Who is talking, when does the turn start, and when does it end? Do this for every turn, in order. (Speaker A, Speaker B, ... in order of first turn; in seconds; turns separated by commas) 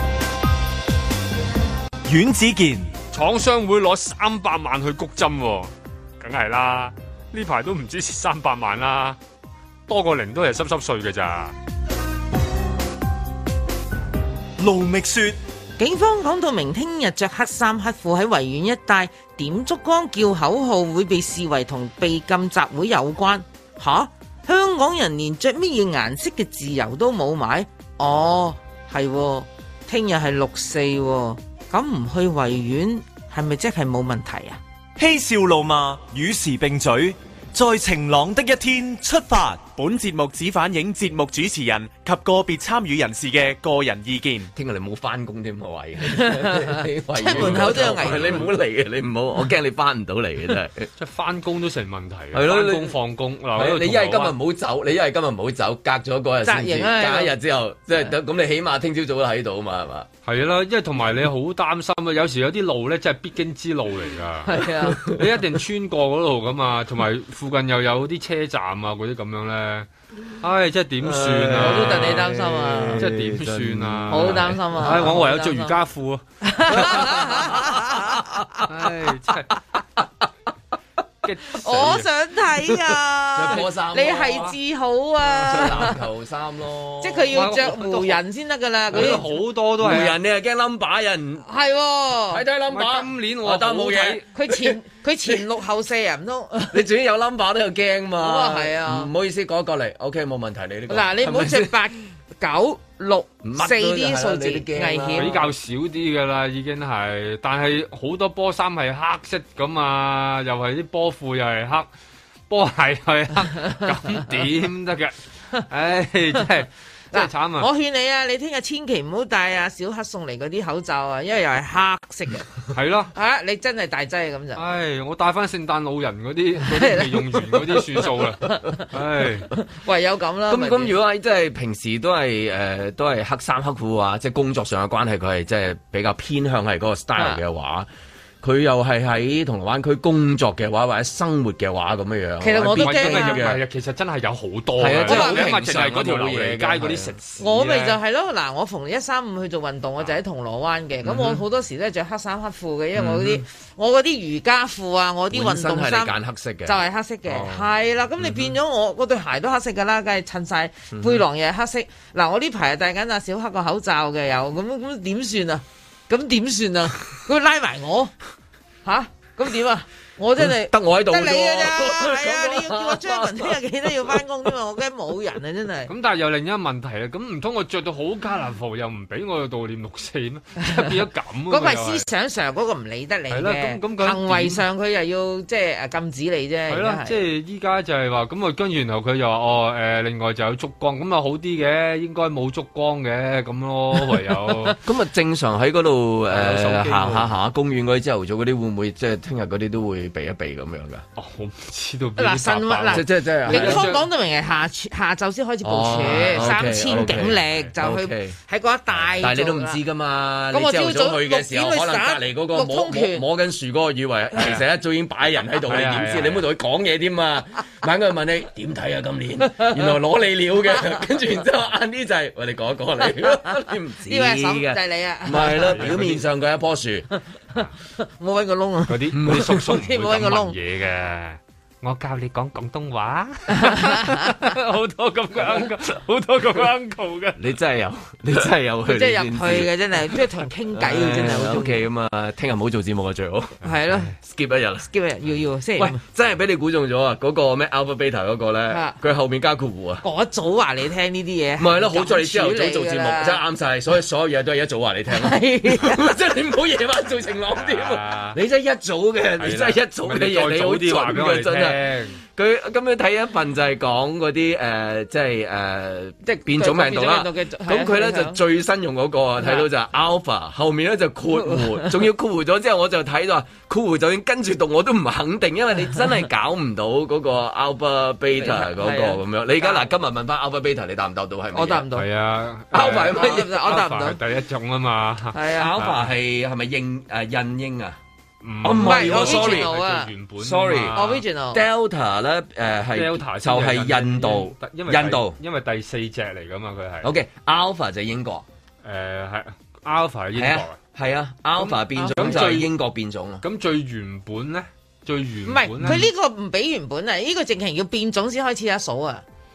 Speaker A: 2.1-2.9, Speaker B: 3.1-9.2, Speaker B: 9.9-11.6, Speaker A: 14.6-15.4, Speaker C: 15.8-34.6, Speaker A: 35.0-39.7, Speaker D: 39.7-44.5, Speaker E: 44.5-50.9, Speaker C: 46.1-48.5, Speaker B: 47.3-48.5, Speaker B: 51.0-54.4, Speaker E: 52.3-53.0, Speaker E: 53.5-60.1, Speaker C: 56.4-57.4, Speaker B: 60.2-69.9, Speaker C: 64.5-65.0, Speaker B: 70.4-77.5, Speaker E: 71.0-75.2, Speaker C: 71.6-73.0, Speaker C: 74.1-75.8, Speaker C: 76.4-78.7, Speaker E: 76.8-78.4, Speaker B: 78.7-79.6, Speaker B: 81.2-82.1, Speaker C: 81.6-86.0, Speaker E: 83.3-84.5, Speaker B: 84.2-84.5, Speaker E: 85.3-87.5, Speaker C: 87.0-89.2, Speaker B: 87.3-88.2, Speaker B: 88.9-90.2, Speaker E: 88.9-91.5, Speaker C: 91.5-92.4, Speaker E: 92.3-95.4, Speaker B: 92.7-94.3, Speaker C: 94.3-96.8, Speaker E: 96.7-101.7, Speaker C: 98.2-99.1, Speaker C: 100.9-105.4, Speaker E: 103.4-105.5, Speaker B: 105.2-111.9, Speaker B: 112.5-117.7, Speaker C: 117.1-122.5, Speaker B: 122.7-123.1, Speaker C: 123.1-124.6, Speaker B: 124.6-129.5, Speaker C: 126.7-127.2, Speaker C: 129.6-130.9, Speaker E: 130.5-137.9, Speaker E: 138.4-143.6, Speaker C: 142.4-143.5, Speaker B: 142.8-148.0, Speaker E: 144.8-147.2, Speaker C: 145.0-145.6, Speaker C: 147.4-168.1, Speaker E: 151.1-151.4, Speaker E: 152.9-153.4, Speaker E: 155.3-157.7, Speaker E: 160.9-161.2, Speaker C: 168.8-175.9, Speaker E: 170.4-174.2, Speaker B: 175.9-182.1, Speaker C: 181.5-187.2, Speaker B: 183.3-184.6, Speaker B: 186.7-194.8, Speaker C: 194.5-194.7, Speaker E: 194.8-201.0, Speaker B: 196.3-197.3, Speaker B: 201.2-204.1, Speaker C: 202.2-209.8, Speaker E: 202.9-203.9, Speaker E: 205.6-208.4, Speaker B: 206.0-207.7, Speaker E: 209.2-227.1, Speaker C: 210.5-213.2, Speaker B: 215.7-216.4, Speaker C: 224.1-225.9, Speaker B: 225.7-226.2, Speaker C: 228.0-230.6, Speaker B: 228.9-237.4, Speaker E: 229.1-229.7, Speaker C: 233.6-234.4, Speaker E: 237.4-240.1, Speaker C: 238.9-241.8, Speaker E: 240.7-243.6, Speaker C: 243.6-244.1, Speaker E: 244.2-244.9, Speaker C: 244.8-246.0, Speaker E: 245.8-250.1, Speaker C: 248.7-249.0, Speaker C: 250.0-253.4, Speaker E: 251.6-281.9, Speaker C: 255.1-256.1, Speaker B: 257.5-258.4, Speaker B: 259.4-262.2, Speaker C: 266.2-268.4, Speaker C: 269.4-269.7, Speaker C: 271.5-271.9, Speaker C: 278.3-279.9, Speaker C: 281.5-282.1, Speaker B: 281.9-286.1, Speaker E: 282.7-283.6, Speaker C: 282.8-284.2, Speaker C: 285.3-285.7, Speaker E: 285.5-288.0, Speaker B: 288.4-291.2, Speaker E: 288.6-289.7, Speaker C: 288.8-290.1, Speaker E: 290.4-295.4, Speaker C: 290.9-291.6, Speaker B: 292.9-297.1, Speaker E: 297.0-298.4, Speaker B: 298.8-300.8, Speaker E: 300.4-303.4, Speaker B: 301.6-302.7, Speaker C: 302.0-302.4, Speaker B: 303.4-306.1, Speaker C: 305.5-309.2